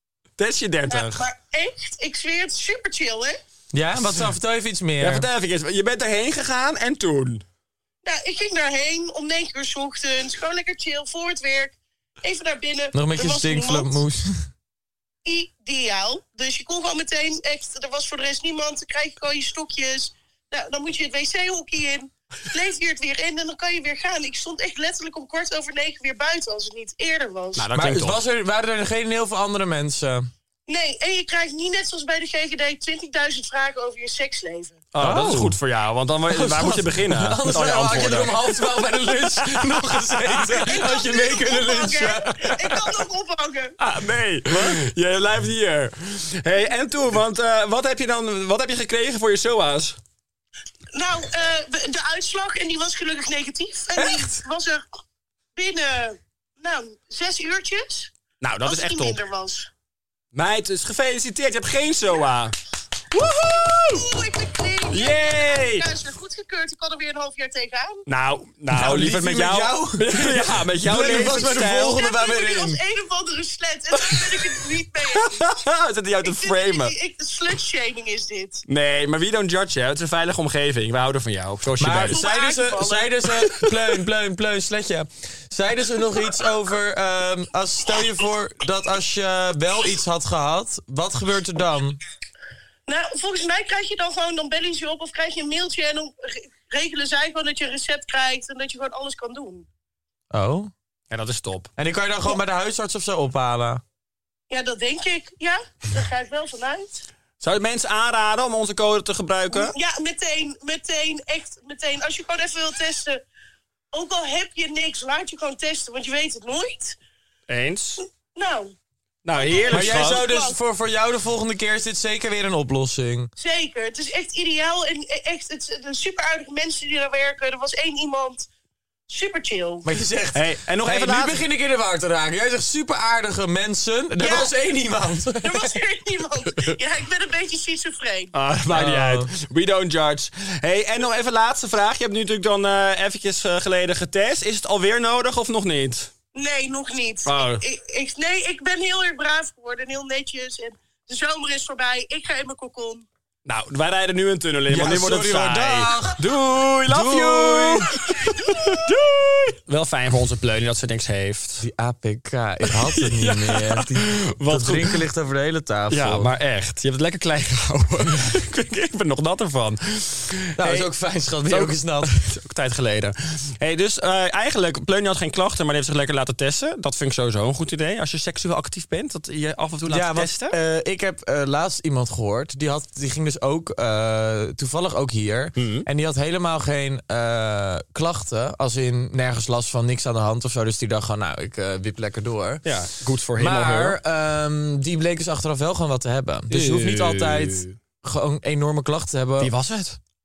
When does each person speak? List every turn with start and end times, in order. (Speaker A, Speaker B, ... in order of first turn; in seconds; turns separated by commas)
Speaker A: 0.4-1.2, Speaker B: 0.9-3.4, Speaker C: 3.7-5.3, Speaker A: 5.0-7.4, Speaker B: 8.1-14.0, Speaker C: 12.9-14.5, Speaker B: 15.2-27.7, Speaker A: 27.6-28.2, Speaker C: 27.8-30.3, Speaker B: 30.7-34.8, Speaker A: 34.9-40.5, Speaker C: 35.0-35.6, Speaker C: 36.3-42.9, Speaker B: 40.6-43.7, Speaker A: 43.8-50.0, Speaker C: 44.5-44.8, Speaker B: 50.9-54.8, Speaker A: 54.0-54.4, Speaker B: 55.6-58.1, Speaker A: 58.4-59.2, Speaker B: 58.6-59.7, Speaker A: 60.3-62.5, Speaker A: 63.1-64.1, Speaker B: 63.7-68.0, Speaker A: 64.9-65.9, Speaker A: 68.1-72.0, Speaker C: 68.7-72.8, Speaker B: 71.8-75.4, Speaker A: 74.0-77.0, Speaker B: 76.2-78.6, Speaker A: 78.7-82.2, Speaker C: 81.8-92.0, Speaker B: 82.1-83.1, Speaker B: 92.9-99.7, Speaker C: 100.3-100.7, Speaker A: 101.1-101.7, Speaker C: 101.8-103.8, Speaker B: 104.5-107.0, Speaker A: 107.4-109.8, Speaker B: 109.5-113.2, Speaker B: 113.9-117.0, Speaker A: 117.5-118.0, Speaker B: 118.3-118.7, Speaker A: 119.2-120.2, Speaker B: 119.4-120.6, Speaker C: 119.7-123.3, Speaker B: 123.4-128.5, Speaker B: 129.1-129.9, Speaker C: 129.8-135.7, Speaker A: 130.3-131.4, Speaker B: 134.2-134.5, Speaker B: 135.4-138.3, Speaker A: 138.3-146.1, Speaker C: 138.7-139.3, Speaker B: 146.3-153.1, Speaker A: 147.3-147.6, Speaker A: 153.5-161.6, Speaker C: 154.7-156.2, Speaker C: 156.9-157.9, Speaker C: 161.6-166.3, Speaker A: 162.7-165.0, Speaker A: 165.9-170.9, Speaker C: 170.6-172.2, Speaker A: 171.5-180.6, Speaker C: 179.9-192.6, Speaker A: 185.6-185.9, Speaker A: 192.7-194.0, Speaker C: 193.4-199.5, Speaker A: 196.5-197.8, Speaker A: 199.4-200.0